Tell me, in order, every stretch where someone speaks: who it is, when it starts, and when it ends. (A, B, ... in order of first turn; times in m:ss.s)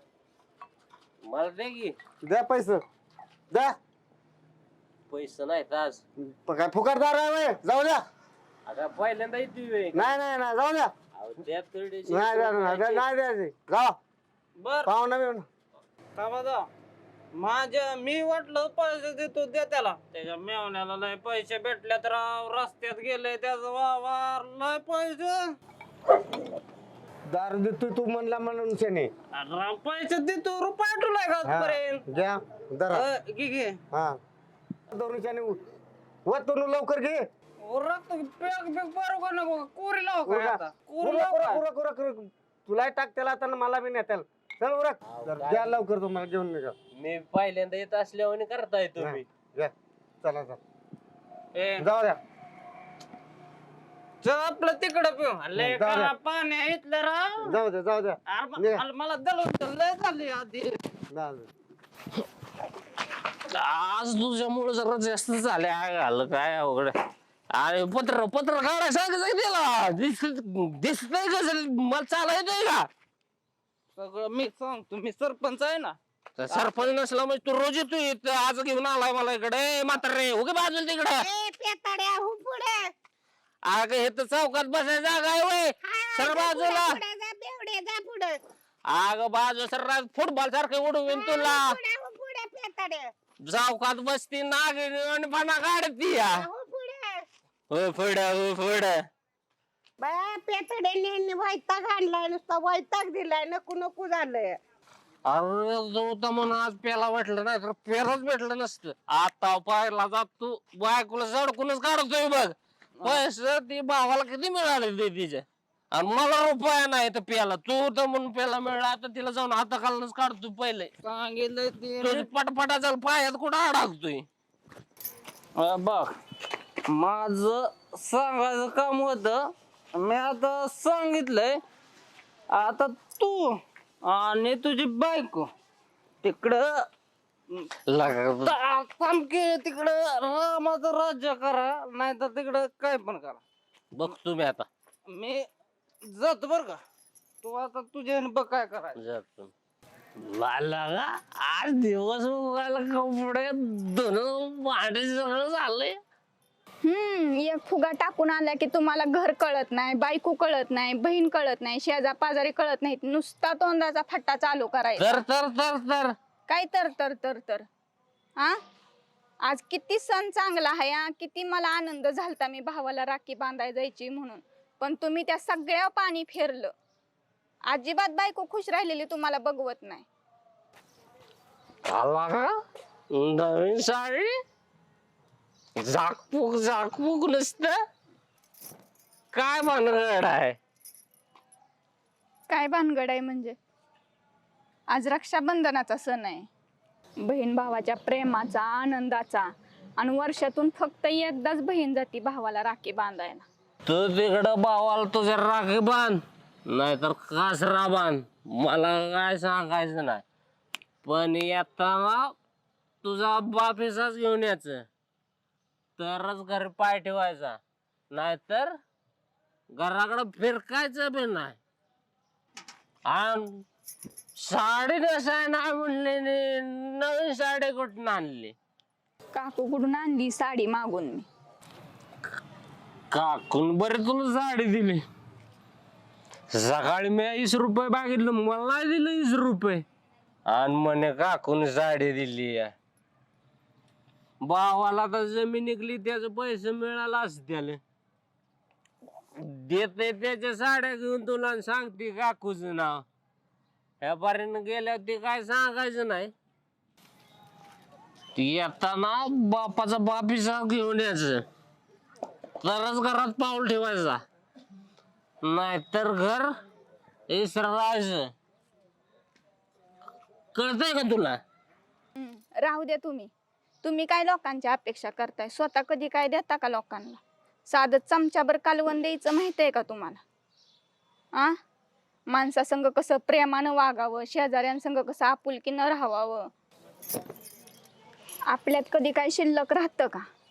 0:01.2-0:02.0 A
0:02.2-0:02.8 B
0:05.1-0:06.0 A
0:06.4-0:08.0 B
0:08.6-0:10.1 A
0:09.9-0:10.9 B
0:11.1-0:13.0 A
0:12.1-0:14.0 B
0:14.6-0:14.9 C
0:14.9-0:15.4 B
0:16.2-0:16.7 C
0:17.3-0:25.5 C
0:27.3-0:29.1 B
0:29.3-0:32.1 C
0:31.5-0:33.0 B
0:32.9-0:33.8 C
0:34.9-0:35.6 B
0:36.2-0:37.2 B
0:37.6-0:41.6 C
0:40.3-0:46.7 B
0:45.1-0:45.7 A
0:47.0-0:49.2 A
0:49.0-0:49.7 B
0:50.2-0:50.6 B
0:51.5-0:51.9 C
0:51.8-0:52.2 B
0:54.2-0:57.6 C
0:55.6-0:56.1 B
0:57.5-0:58.8 B
0:58.3-1:00.8 C
1:01.1-1:01.4 B
1:03.5-1:07.0 A
1:07.5-1:12.9 A
1:13.9-1:16.0 C
1:16.4-1:21.2 A
1:16.5-1:16.9 C
1:21.2-1:22.9 D
1:23.6-1:27.0 A
1:25.8-1:28.4 D
1:28.9-1:31.7 A
1:31.1-1:33.1 D
1:33.4-1:36.4 A
1:36.2-1:37.2 D
1:37.7-1:39.0 A
1:40.0-1:44.6 D
1:45.3-2:00.9 A
2:01.0-2:02.3 C
2:02.0-2:04.3 A
2:05.6-2:06.1 C
2:06.9-2:11.6 C
2:12.5-2:15.5 C
2:16.2-2:16.9 C
2:17.9-2:18.5 A
2:18.4-2:23.4 C
2:23.9-2:24.7 A
2:25.1-2:25.5 C
2:26.0-2:26.8 C
2:27.4-2:29.0 C
2:29.0-2:29.5 A
2:30.2-2:36.0 A
2:36.8-2:45.2 E
2:45.0-2:46.2 A
2:46.5-2:47.7 E
2:49.4-2:56.7 E
2:57.7-3:00.1 E
3:01.9-3:02.5 A
3:03.1-3:04.3 A
3:05.8-3:07.8 A
3:09.3-3:10.6 A
3:12.5-3:13.6 E
3:14.9-3:16.5 E
3:17.2-3:23.5 E
3:23.9-3:30.2 A
3:31.0-3:32.3 A
3:33.0-3:34.9 A
3:36.0-3:37.6 A
3:38.1-3:38.8 A
3:39.8-3:41.6 A
3:43.1-3:43.6 A
3:44.4-3:48.6 A
3:49.3-3:51.3 E
3:53.1-3:55.0 A
3:56.5-3:59.8 A
4:00.5-4:02.7 A
4:04.4-4:07.8 A
4:09.4-4:13.0 A
4:14.0-4:16.3 A
4:18.4-4:21.4 A
4:22.6-4:24.2 A
4:25.4-4:26.5 A
4:27.3-4:28.3 A
4:30.5-4:31.4 A
4:32.2-4:33.3 E
4:33.8-4:40.2 E
4:41.3-4:41.6 E
4:42.3-4:46.5 E
4:48.5-4:50.2 E